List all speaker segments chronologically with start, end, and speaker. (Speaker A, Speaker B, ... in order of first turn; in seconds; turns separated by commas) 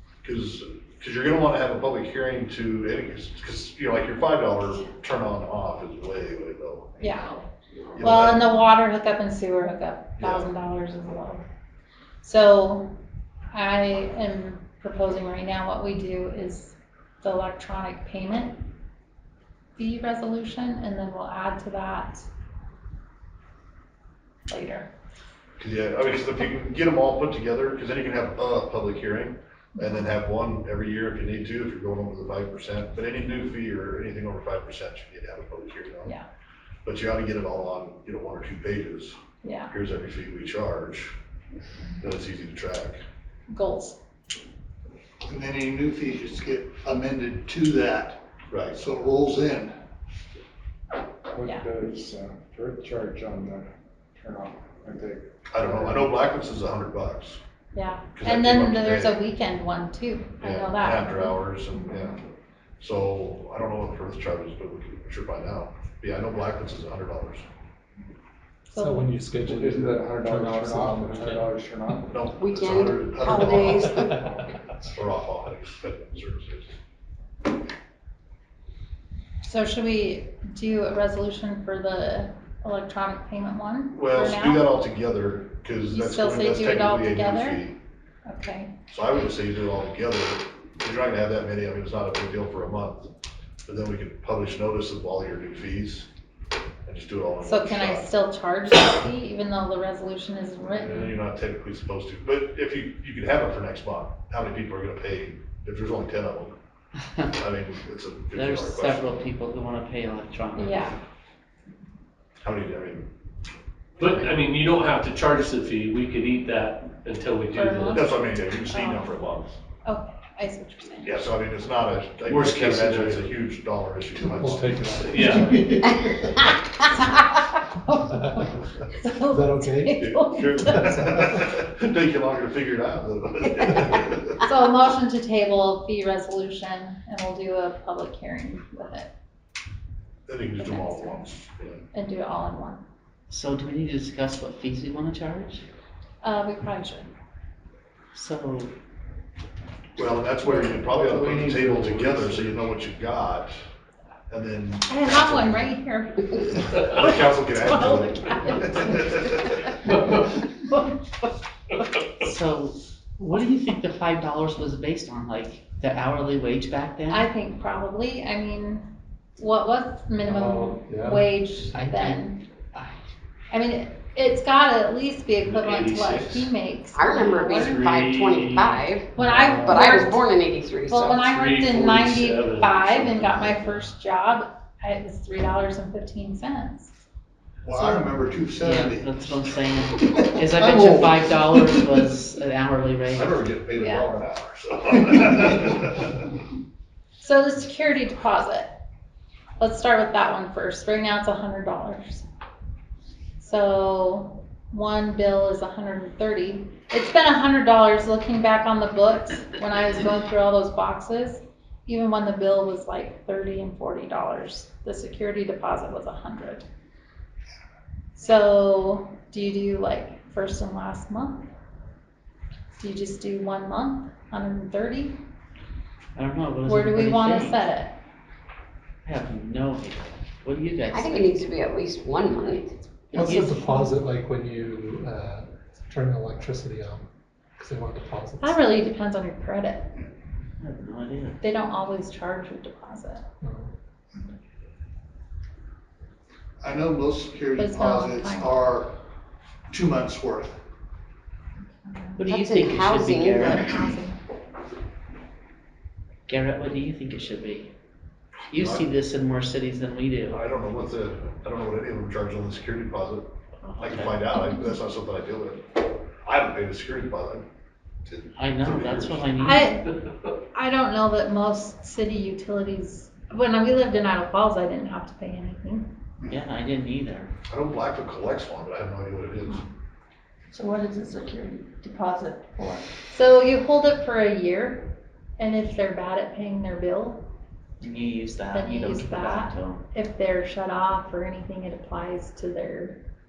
Speaker A: 0.2-7.0, Speaker B: 7.0-7.4, Speaker A: 8.0-8.5, Speaker B: 8.0-11.4, Speaker A: 10.2-10.5, Speaker B: 12.2-12.9, Speaker B: 13.5-18.6, Speaker B: 19.8-22.3, Speaker B: 24.5-24.9, Speaker A: 25.6-36.1, Speaker B: 29.8-30.1, Speaker A: 36.9-39.2, Speaker B: 39.4-39.7, Speaker A: 39.7-41.1, Speaker A: 42.0-43.0, Speaker B: 43.5-44.0, Speaker C: 45.2-48.2, Speaker A: 48.5-48.8, Speaker C: 48.7-49.7, Speaker D: 51.3-56.0, Speaker A: 55.5-57.4, Speaker B: 57.7-61.4, Speaker A: 58.2-59.2, Speaker A: 60.4-62.2, Speaker A: 62.8-67.5, Speaker B: 68.7-69.1, Speaker E: 68.8-72.1, Speaker D: 69.5-72.1, Speaker A: 72.1-74.1, Speaker F: 72.4-74.2, Speaker E: 73.6-74.5, Speaker A: 75.0-76.7, Speaker B: 79.4-84.7, Speaker A: 83.9-87.8, Speaker B: 85.9-87.6, Speaker B: 88.3-88.7, Speaker A: 88.9-93.1, Speaker A: 93.7-96.1, Speaker A: 96.8-98.1, Speaker B: 97.4-101.1, Speaker A: 100.8-106.5, Speaker A: 107.3-109.2, Speaker G: 108.3-110.9, Speaker B: 110.6-111.0, Speaker A: 112.4-113.1, Speaker A: 114.0-114.3, Speaker H: 114.0-118.0, Speaker B: 117.5-118.1, Speaker A: 117.9-119.6, Speaker B: 118.7-119.2, Speaker B: 119.8-121.2, Speaker A: 121.0-125.0, Speaker H: 122.2-123.3, Speaker C: 124.2-124.5, Speaker E: 124.3-125.6, Speaker H: 125.0-125.8, Speaker C: 125.3-126.3, Speaker B: 126.8-130.9, Speaker E: 128.2-128.5, Speaker E: 129.3-131.3, Speaker A: 130.0-134.4, Speaker B: 134.4-139.1, Speaker A: 140.3-141.8, Speaker B: 140.6-141.3, Speaker B: 141.9-142.8, Speaker G: 143.3-145.6, Speaker B: 146.2-147.1, Speaker G: 148.1-148.7, Speaker A: 150.0-153.6, Speaker H: 150.4-152.7, Speaker A: 154.3-155.7, Speaker B: 154.9-160.1, Speaker A: 156.3-159.4, Speaker G: 162.2-167.3, Speaker B: 167.1-172.4, Speaker E: 170.2-171.3, Speaker G: 171.7-172.9, Speaker B: 173.5-177.8, Speaker H: 175.4-176.5, Speaker F: 176.9-181.3, Speaker H: 177.5-178.9, Speaker E: 179.1-180.1, Speaker B: 179.2-180.3, Speaker B: 180.9-186.9, Speaker H: 181.3-183.9, Speaker C: 187.6-191.9, Speaker B: 187.7-188.1, Speaker G: 188.6-193.4, Speaker A: 193.1-196.2, Speaker B: 193.8-194.1, Speaker B: 197.2-198.7, Speaker B: 199.6-202.2, Speaker B: 203.4-216.7, Speaker B: 218.2-221.5, Speaker B: 222.8-225.2, Speaker G: 226.2-227.6, Speaker B: 226.7-227.9, Speaker G: 229.0-231.5, Speaker F: 230.9-232.7, Speaker G: 233.1-233.8, Speaker E: 233.1-237.1, Speaker B: 233.2-233.9, Speaker E: 237.6-238.6, Speaker B: 238.4-239.9, Speaker G: 240.6-241.4, Speaker B: 241.4-243.2, Speaker E: 243.4-243.7, Speaker C: 246.6-248.9, Speaker B: 247.6-248.6, Speaker C: 249.7-250.6, Speaker B: 251.7-252.2, Speaker G: 252.2-253.7, Speaker F: 252.3-253.7, Speaker B: 253.2-254.2, Speaker G: 256.3-257.7, Speaker G: 258.5-260.4, Speaker A: 258.5-258.9, Speaker A: 260.3-263.3, Speaker G: 263.6-264.2, Speaker A: 263.8-265.6, Speaker B: 264.3-264.8, Speaker A: 266.2-267.4, Speaker A: 268.1-269.3, Speaker G: 268.4-269.7, Speaker B: 269.4-269.9, Speaker B: 270.5-275.9, Speaker G: 276.3-277.3, Speaker A: 277.5-279.6, Speaker I: 280.5-282.9, Speaker B: 283.1-284.9, Speaker B: 285.4-287.2, Speaker G: 287.8-289.8, Speaker B: 288.5-293.0